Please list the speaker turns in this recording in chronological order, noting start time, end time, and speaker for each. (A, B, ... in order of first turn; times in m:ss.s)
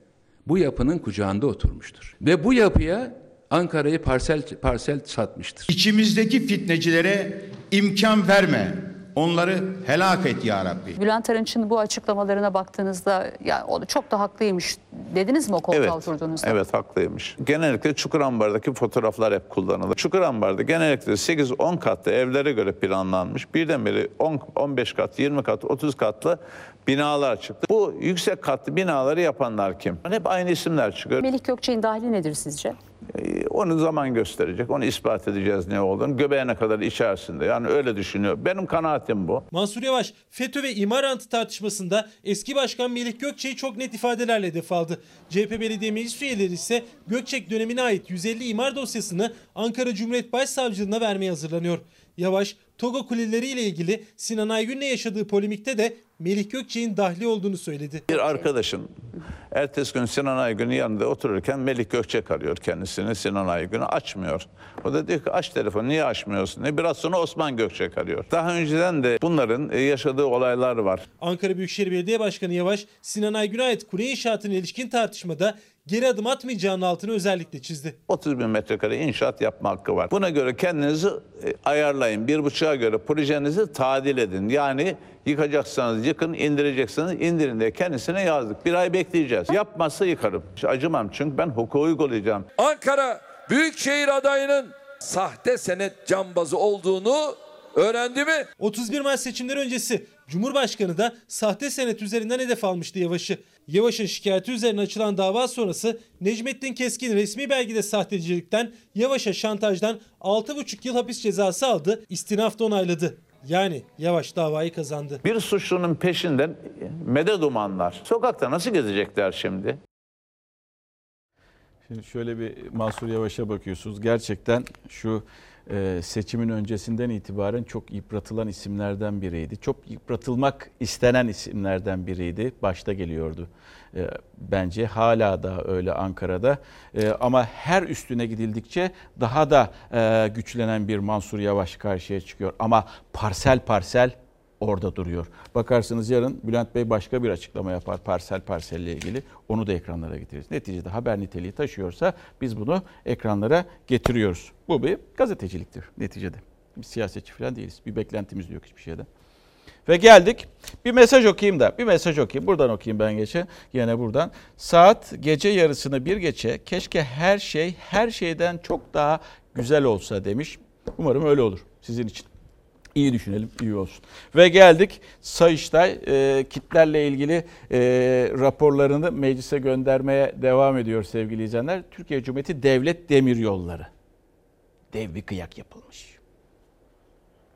0:00.4-0:05.7 A
0:05.7-0:11.0 B
0:11.0-0:16.6 C
0:15.7-0:31.2 D
0:31.2-0:32.8 C
0:33.1-0:39.4 D
0:39.5-0:58.1 E
0:58.1-0:59.0 D
0:59.5-1:11.0 D
1:11.2-1:18.0 E
1:18.1-1:32.5 D
1:32.6-1:38.5 F
1:38.6-1:55.2 E
1:55.2-1:59.8 D
2:01.9-2:39.1 G
2:39.8-2:52.3 G
2:52.9-3:03.9 G
3:04.9-3:06.2 G